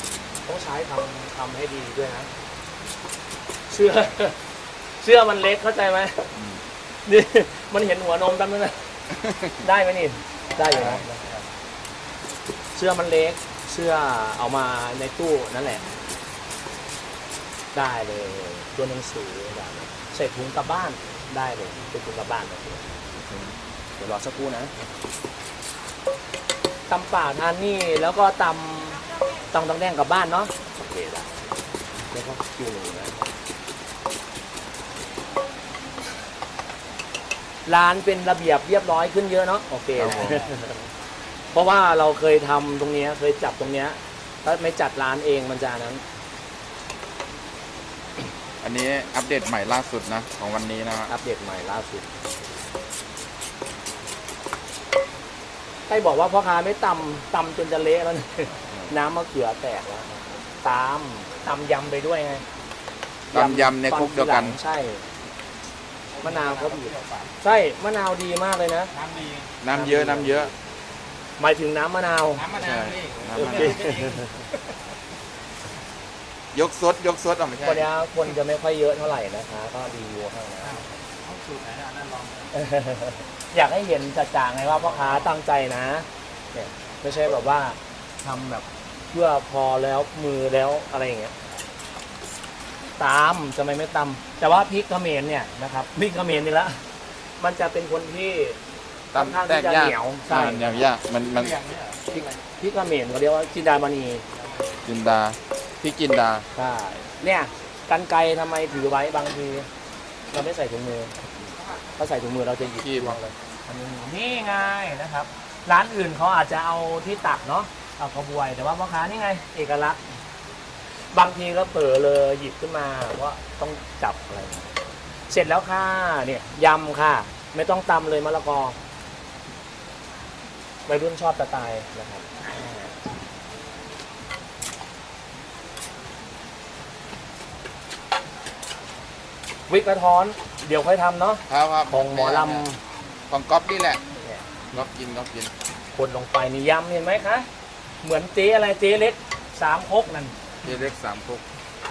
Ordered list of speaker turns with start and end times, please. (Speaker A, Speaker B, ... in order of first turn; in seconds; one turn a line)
Speaker A: 0.5-2.3
Speaker A: 3.7-4.4
Speaker A: 5.0-6.3
Speaker B: 6.3-6.6
Speaker A: 7.0-8.8
Speaker B: 9.2-9.5
Speaker A: 9.6-11.3
Speaker C: 10.5-11.4
Speaker B: 10.7-11.0
Speaker A: 12.7-15.9
Speaker A: 17.7-23.0
Speaker B: 23.2-23.5
Speaker A: 24.0-24.7
Speaker A: 26.9-31.3
Speaker A: 32.1-33.3
Speaker A: 37.6-40.5
Speaker B: 40.0-40.4
Speaker C: 40.0-40.7
Speaker A: 41.5-46.0
Speaker B: 48.6-51.1
Speaker A: 51.1-52.1
Speaker A: 55.9-62.4
Speaker B: 63.3-64.6
Speaker A: 63.3-65.0
Speaker C: 66.1-67.3
Speaker A: 66.2-68.9
Speaker C: 68.9-69.5
Speaker B: 69.6-70.5
Speaker A: 69.7-70.5
Speaker A: 71.4-72.5
Speaker C: 72.3-74.3
Speaker B: 72.5-73.9
Speaker A: 73.3-74.3
Speaker B: 76.5-77.9
Speaker A: 77.6-80.8
Speaker C: 80.6-82.5
Speaker A: 82.5-91.3
Speaker C: 84.7-85.3
Speaker A: 93.0-96.8
Speaker A: 97.4-98.6
Speaker B: 99.1-101.6
Speaker A: 99.1-100.8
Speaker C: 101.2-102.3
Speaker A: 102.1-104.2
Speaker C: 104.3-104.8
Speaker B: 104.8-106.5
Speaker A: 106.5-109.7
Speaker A: 110.3-111.2
Speaker A: 112.0-120.0
Speaker B: 112.6-113.2
Speaker A: 120.9-124.7
Speaker A: 125.3-128.8
Speaker A: 130.9-132.9
Speaker A: 139.7-142.8
Speaker B: 141.5-142.6
Speaker B: 143.3-144.0
Speaker B: 144.7-145.5
Speaker A: 145.9-147.5
Speaker A: 148.0-150.4
Speaker B: 150.6-151.4